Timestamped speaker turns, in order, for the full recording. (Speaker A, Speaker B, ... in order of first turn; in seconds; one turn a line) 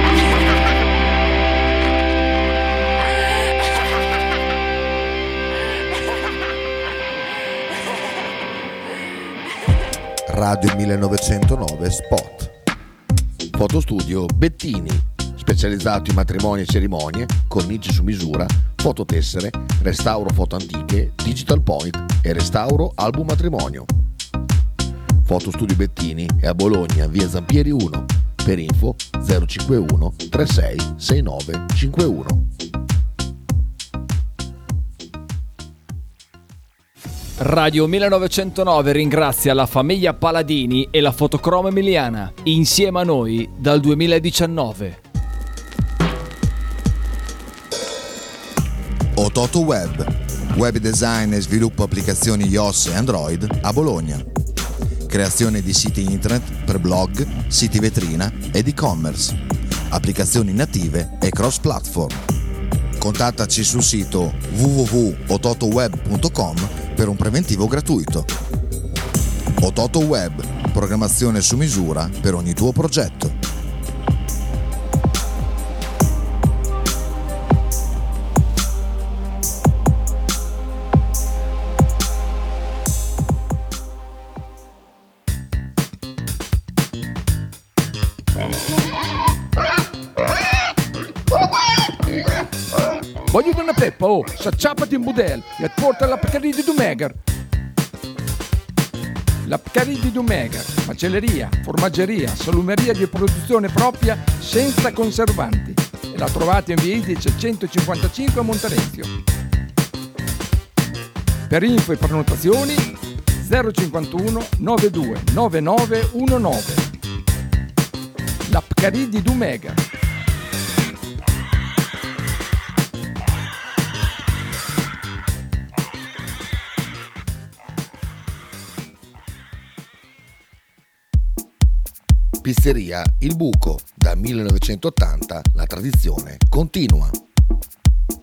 Speaker A: 10.3-10.7
Speaker B: 10.4-12.5
Speaker B: 13.5-23.9
Speaker B: 25.2-32.4
Speaker C: 37.4-45.0
Speaker A: 49.1-54.2
Speaker A: 55.1-59.4
Speaker A: 59.9-62.2
Speaker A: 63.0-68.3
Speaker A: 69.6-73.4
Speaker D: 93.3-97.2
Speaker D: 99.4-109.1
Speaker D: 111.5-116.9
Speaker D: 118.5-119.8
Speaker B: 132.4-137.2